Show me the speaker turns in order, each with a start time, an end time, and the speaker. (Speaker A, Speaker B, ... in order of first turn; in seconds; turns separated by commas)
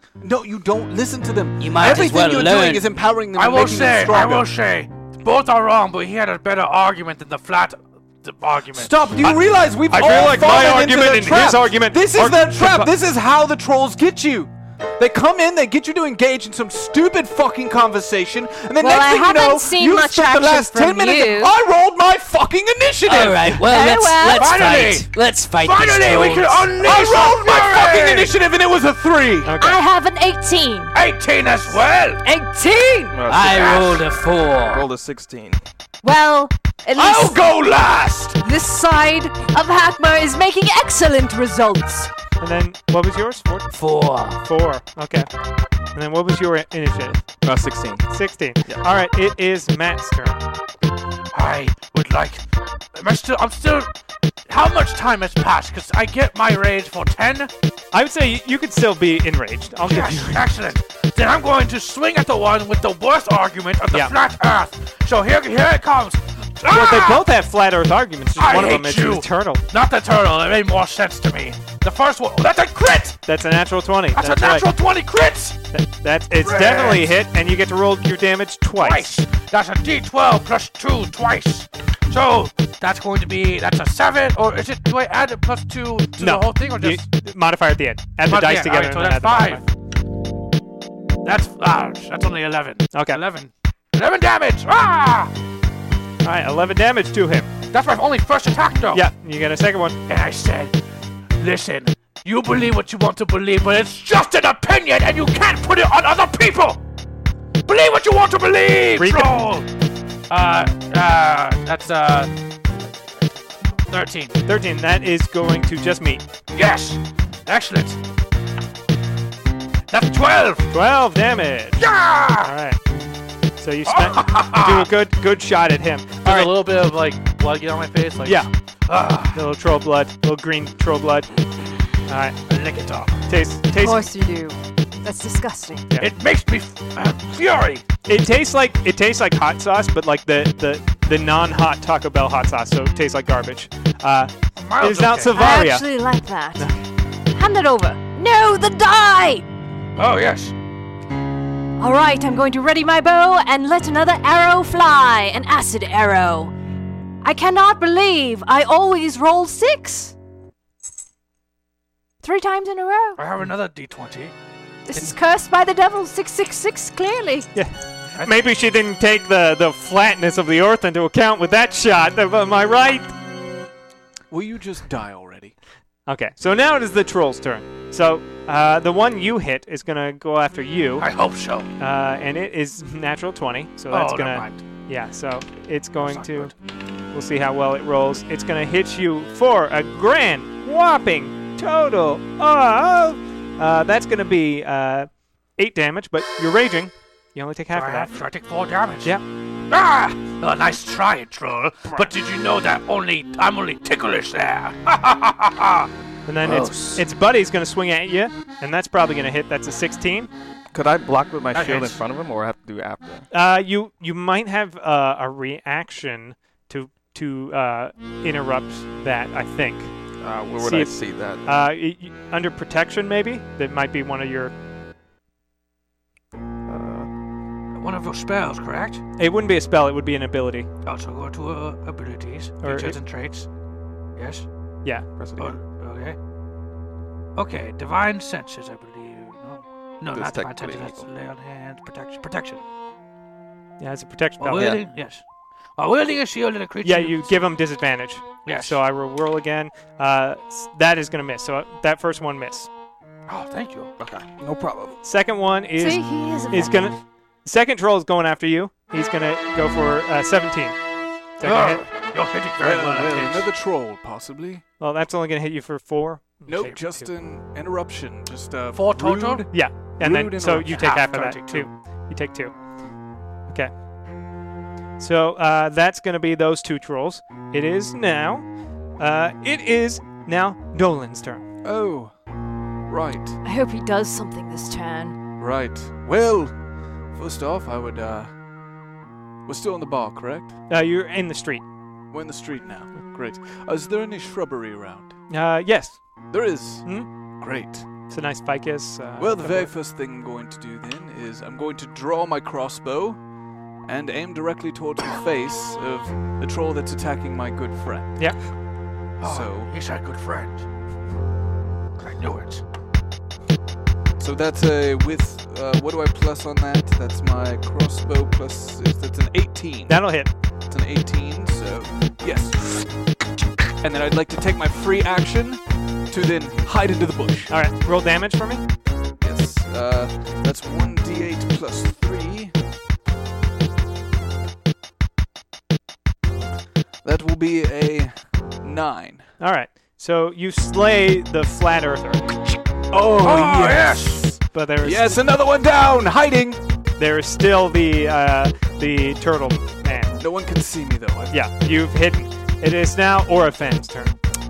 Speaker A: 0.2-4.5, Speaker B: 1.6-2.9, Speaker C: 3.3-9.1, Speaker A: 8.7-23.6, Speaker D: 9.2-12.9, Speaker E: 18.8-21.5, Speaker B: 23.0-26.7, Speaker E: 23.6-24.6, Speaker C: 24.3-28.4, Speaker A: 26.7-29.5, Speaker D: 29.4-29.8, Speaker E: 29.6-30.9, Speaker C: 30.9-32.2, Speaker E: 32.2-33.2, Speaker F: 33.1-34.1, Speaker B: 33.3-34.9, Speaker F: 34.7-35.6, Speaker E: 36.0-37.4, Speaker C: 37.0-38.3, Speaker E: 38.4-42.1, Speaker D: 42.4-43.7, Speaker B: 43.7-44.4, Speaker D: 44.4-45.3, Speaker D: 45.9-47.2, Speaker F: 47.4-48.1, Speaker D: 48.1-50.4, Speaker C: 51.3-52.4, Speaker C: 52.9-53.9, Speaker C: 54.5-57.5, Speaker D: 57.9-60.5, Speaker C: 59.8-67.2, Speaker D: 66.6-69.6, Speaker C: 68.4-73.2, Speaker D: 73.2-74.7, Speaker C: 74.1-75.6, Speaker D: 75.7-79.1, Speaker C: 76.4-77.2, Speaker C: 78.8-87.1, Speaker D: 86.2-89.6, Speaker C: 88.2-89.6, Speaker C: 91.2-95.3, Speaker D: 92.9-93.2, Speaker D: 96.2-97.5, Speaker C: 97.7-99.0, Speaker D: 98.9-100.0, Speaker C: 100.1-100.7, Speaker C: 101.4-106.8, Speaker C: 107.7-109.7, Speaker D: 109.0-109.4, Speaker C: 110.3-112.3, Speaker C: 113.9-114.3, Speaker D: 114.5-116.2, Speaker C: 116.5-118.0, Speaker C: 119.9-120.7, Speaker D: 120.7-121.9, Speaker C: 121.8-122.5, Speaker D: 122.4-122.8, Speaker D: 123.6-126.5, Speaker C: 123.9-124.9, Speaker C: 126.2-129.5, Speaker D: 128.2-128.5, Speaker D: 129.3-131.3, Speaker D: 132.1-132.4, Speaker C: 132.5-133.2, Speaker D: 133.3-134.1, Speaker E: 133.7-135.8, Speaker C: 136.0-137.8, Speaker D: 138.1-145.9, Speaker C: 144.6-145.3, Speaker E: 145.3-146.7, Speaker E: 147.3-149.4, Speaker C: 149.9-150.5, Speaker E: 151.8-156.5, Speaker E: 157.2-160.1, Speaker E: 162.2-163.2, Speaker C: 163.2-164.3, Speaker E: 164.8-167.5, Speaker D: 167.5-173.1, Speaker A: 174.3-175.5, Speaker D: 176.1-181.1, Speaker C: 181.0-181.7, Speaker D: 181.8-186.5, Speaker C: 183.9-184.7, Speaker C: 186.0-186.5, Speaker D: 187.1-198.2, Speaker C: 197.7-199.1, Speaker C: 199.7-205.9, Speaker D: 206.2-210.3, Speaker B: 206.4-207.0, Speaker F: 210.7-213.2, Speaker C: 211.5-212.0, Speaker D: 213.3-219.9, Speaker F: 220.2-221.5, Speaker D: 220.6-220.9, Speaker D: 221.4-224.5, Speaker F: 226.7-227.1, Speaker C: 227.7-229.0, Speaker D: 229.2-230.7, Speaker C: 230.8-233.5, Speaker D: 232.6-233.0, Speaker C: 234.2-234.4, Speaker D: 234.8-235.1, Speaker F: 235.2-235.6, Speaker C: 235.3-236.2, Speaker C: 237.3-242.6, Speaker F: 240.1-241.1, Speaker D: 243.8-244.8, Speaker C: 244.4-245.2, Speaker F: 244.5-244.8, Speaker C: 245.8-247.4, Speaker D: 246.8-252.7, Speaker C: 248.4-248.8, Speaker C: 253.3-253.9, Speaker F: 254.0-255.0, Speaker D: 255.0-260.8, Speaker E: 255.8-256.9, Speaker D: 261.4-261.8, Speaker C: 261.4-263.5, Speaker A: 262.6-264.6, Speaker D: 264.8-267.1, Speaker A: 266.4-270.8, Speaker C: 268.7-269.5, Speaker D: 269.5-272.6, Speaker C: 270.7-271.7, Speaker D: 275.0-281.4, Speaker A: 281.6-282.1, Speaker A: 282.9-283.4, Speaker E: 283.4-285.2, Speaker A: 285.4-286.6, Speaker A: 287.1-288.3, Speaker A: 289.4-290.6, Speaker D: 290.7-291.6, Speaker A: 292.1-295.2, Speaker D: 295.3-297.1, Speaker A: 296.2-298.0, Speaker D: 298.0-299.7, Speaker A: 299.2-303.2, Speaker A: 303.8-308.2, Speaker C: 309.2-310.6, Speaker A: 309.2-309.7, Speaker C: 312.0-312.6, Speaker A: 314.2-322.9, Speaker D: 319.9-320.3, Speaker A: 323.8-327.5, Speaker D: 327.5-328.6, Speaker A: 329.2-332.5, Speaker A: 337.0-339.3, Speaker D: 339.4-342.3, Speaker A: 342.9-346.6, Speaker C: 343.2-344.4, Speaker D: 344.4-345.2, Speaker D: 347.0-350.1, Speaker A: 350.2-351.4, Speaker D: 351.3-354.1